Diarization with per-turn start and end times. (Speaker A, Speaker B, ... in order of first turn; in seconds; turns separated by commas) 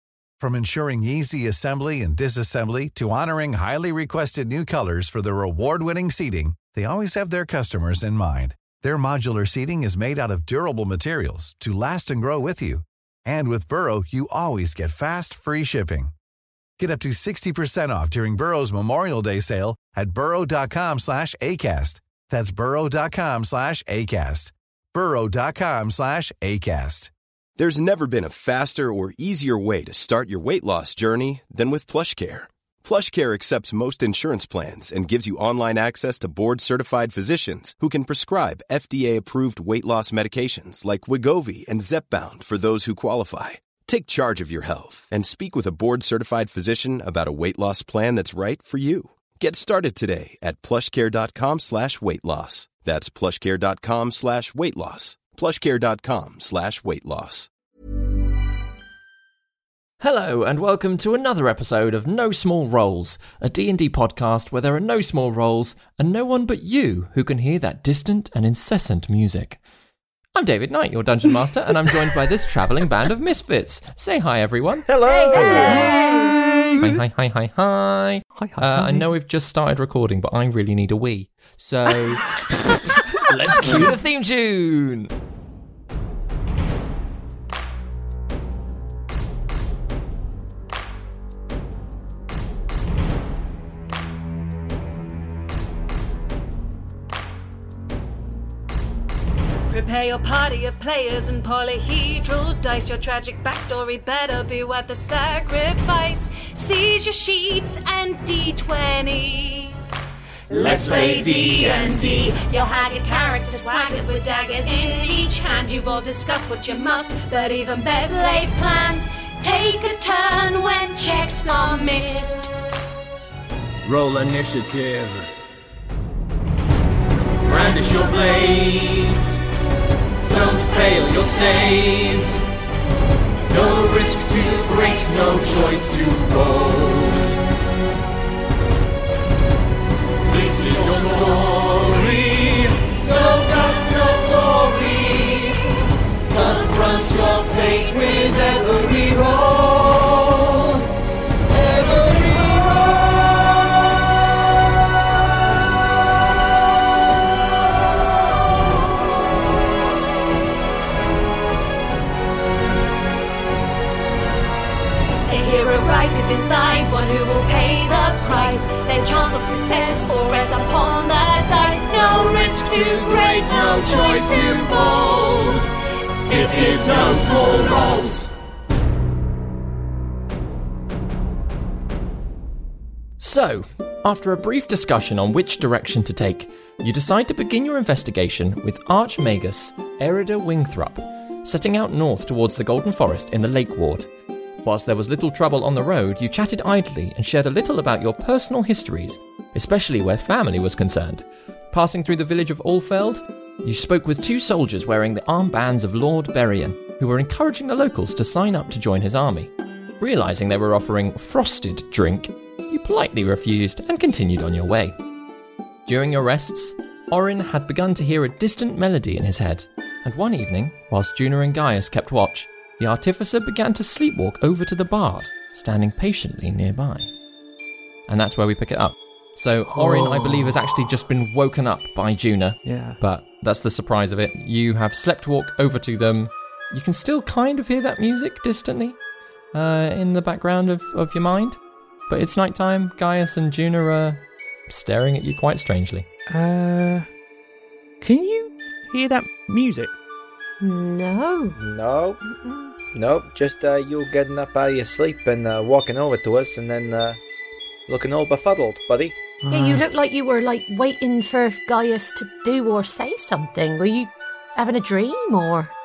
Speaker A: 0.4-16.1, Speaker A: 16.8-27.1, Speaker B: 27.6-57.5, Speaker C: 60.0-69.6, Speaker C: 70.3-74.9, Speaker D: 74.9-76.2, Speaker E: 75.0-76.4, Speaker F: 75.3-76.9, Speaker C: 76.8-82.4, Speaker F: 78.3-79.1, Speaker C: 83.2-85.1, Speaker G: 99.7-106.2, Speaker G: 106.9-107.5, Speaker G: 108.1-109.5, Speaker H: 110.5-112.3, Speaker G: 110.7-122.5, Speaker H: 123.8-125.3, Speaker H: 127.4-129.4, Speaker H: 130.3-132.4, Speaker H: 133.5-137.4, Speaker H: 140.3-145.6, Speaker H: 146.3-150.8, Speaker H: 151.7-152.7, Speaker G: 165.3-175.3, Speaker H: 172.4-175.7, Speaker H: 176.3-178.3, Speaker C: 183.2-194.1, Speaker C: 194.6-214.9, Speaker C: 215.9-227.1, Speaker C: 228.1-239.0, Speaker F: 229.7-230.5, Speaker F: 232.6-233.0, Speaker C: 239.5-241.6, Speaker C: 242.1-246.1, Speaker F: 246.3-247.1, Speaker F: 248.0-249.9, Speaker E: 250.6-251.6, Speaker D: 251.6-252.2, Speaker E: 252.2-252.7, Speaker D: 252.9-257.2, Speaker D: 257.9-259.2, Speaker F: 259.4-259.8, Speaker E: 259.5-265.7